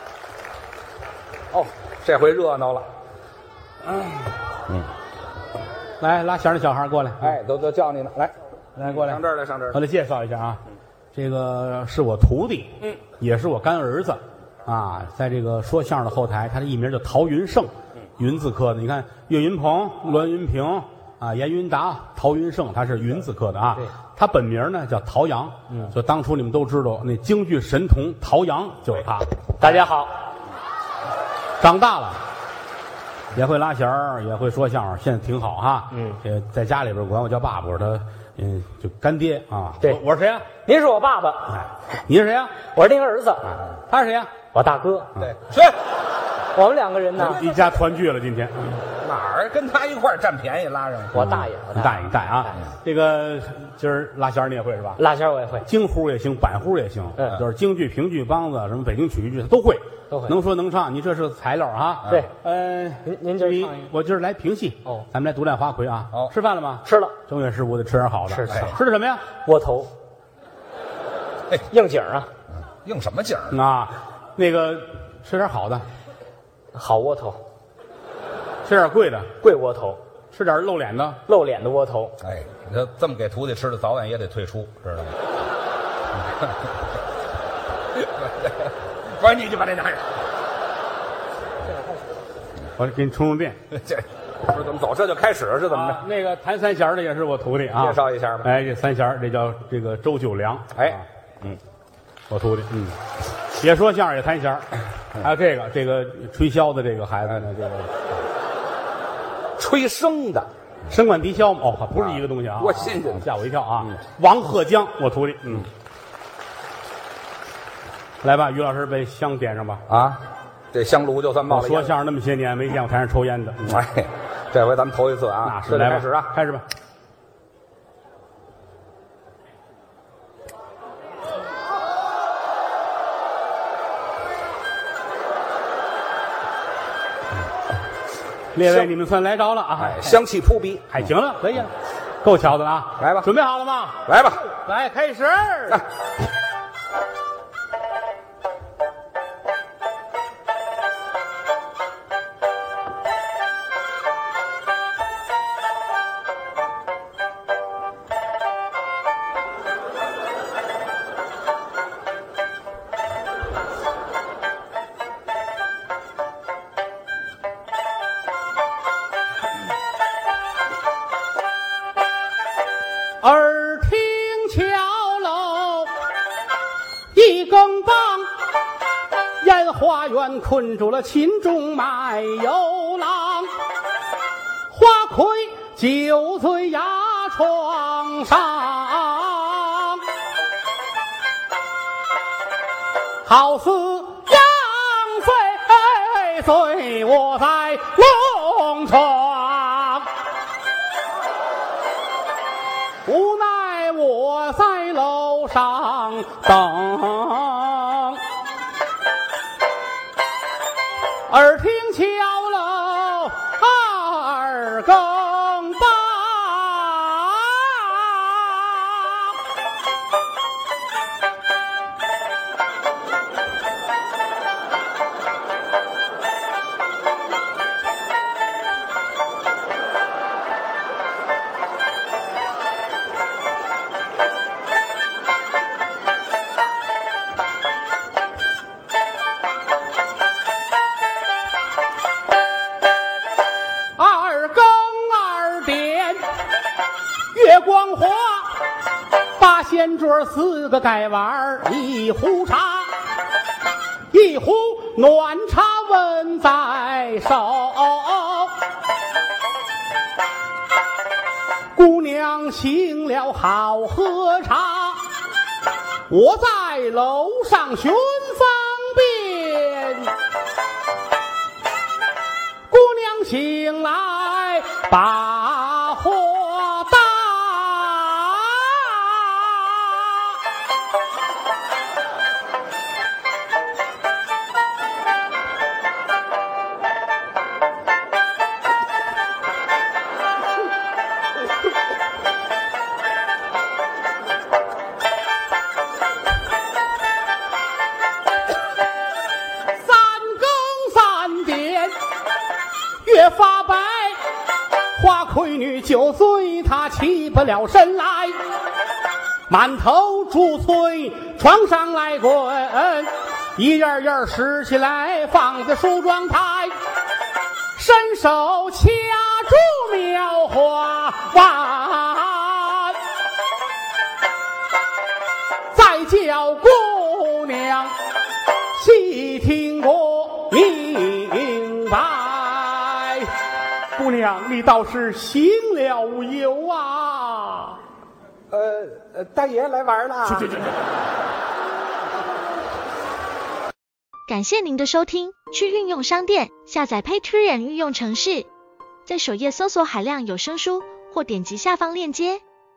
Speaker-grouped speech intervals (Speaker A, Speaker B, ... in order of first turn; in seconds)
Speaker A: 1.5-2.9, 7.2-9.8, 45.2-45.8, 49.0-51.1, 68.5-68.7, 72.6-73.6, 82.2-85.2, 86.2-86.5, 87.9-90.2, 93.7-96.0, 97.8-98.5, 100.7-101.6, 109.6-110.5, 112.0-113.3, 119.9-121.9, 123.7-126.3, 139.8-141.1, 143.0-143.3, 144.1-144.5, 338.5-340.7
Speaker B: 6.0-7.4, 8.8-10.6, 11.1-29.3, 31.6-32.2, 33.3-40.5, 41.5-42.6, 43.5-44.3, 47.2-48.8, 51.1-55.0, 55.6-69.2, 73.5-75.8, 78.6-79.3, 80.3-81.2, 92.8-93.6, 95.7-101.1, 102.3-103.0, 103.6-107.9, 110.9-115.7, 118.2-119.8, 121.5-123.8, 125.4-126.6, 138.5-140.2, 140.9-145.8, 173.2-175.9, 177.1-178.3, 179.4-183.5, 184.7-190.0, 193.2-200.1, 203.1-208.2, 211.3-219.2, 244.0-246.2, 247.3-248.6, 249.3-252.9, 254.1-258.6, 261.7-265.1, 266.1-270.1, 272.7-280.0, 299.8-301.9, 303.0-304.2, 304.9-308.4, 309.5-316.7, 317.8-323.0, 325.7-327.9, 328.7-333.3, 333.9-337.8
Speaker C: 29.6-30.1, 35.9-36.2, 40.6-41.5, 42.7-43.5, 44.5-45.1, 46.5-47.4, 51.1-52.6, 55.0-55.6, 60.1-60.3, 63.0-63.9, 66.8-67.1, 68.3-68.8, 69.4-69.9, 71.7-72.3, 76.7-77.4, 79.4-80.0, 81.3-82.2
Speaker D: 344.3-348.5, 349.1-352.4